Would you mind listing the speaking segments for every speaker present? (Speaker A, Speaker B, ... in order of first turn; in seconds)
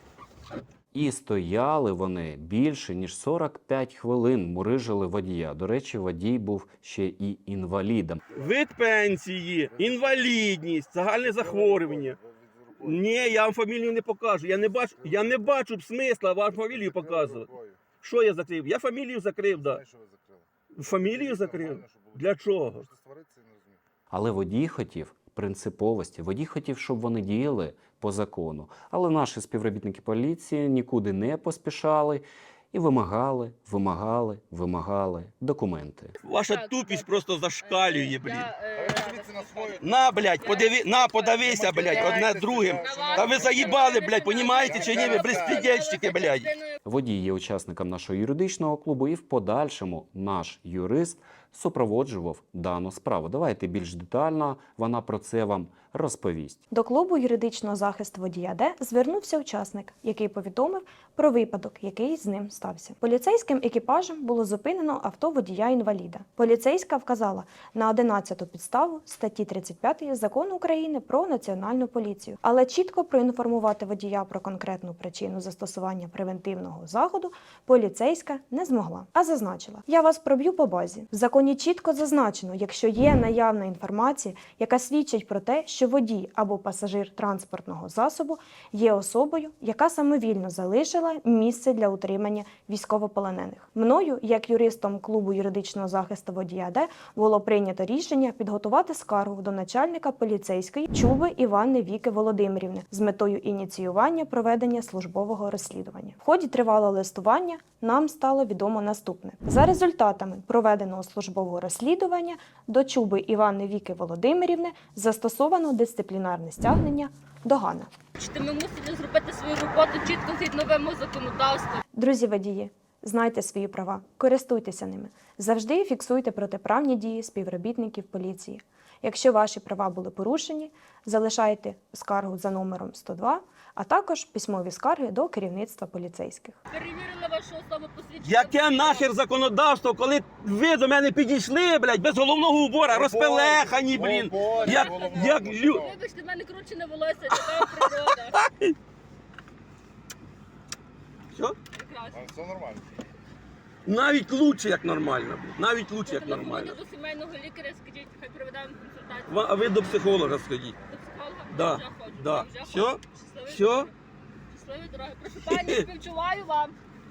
Speaker A: 0.9-8.2, 24.1-36.1, 46.8-56.6
Speaker B: 8.3-12.2, 12.8-17.5, 18.0-19.8, 20.7-22.9, 36.2-38.5, 39.8-46.5, 138.2-145.8, 147.3-148.7, 153.8-156.8, 159.3-160.8, 161.5-163.9, 165.4-165.9
Speaker C: 9.7-10.3, 11.1-13.1, 15.0-15.4, 16.7-17.8, 19.6-23.8, 38.7-39.9, 41.4-43.8, 44.6-45.6, 142.9-145.9, 152.1-152.9
Speaker D: 36.3-37.1, 37.6-39.9, 40.4-42.2, 42.8-46.8, 118.2-121.8, 136.7-139.1, 144.5-148.4, 151.7-152.3, 156.0-159.7, 160.9-163.9, 164.5-166.8
Speaker E: 56.7-117.9, 121.9-136.6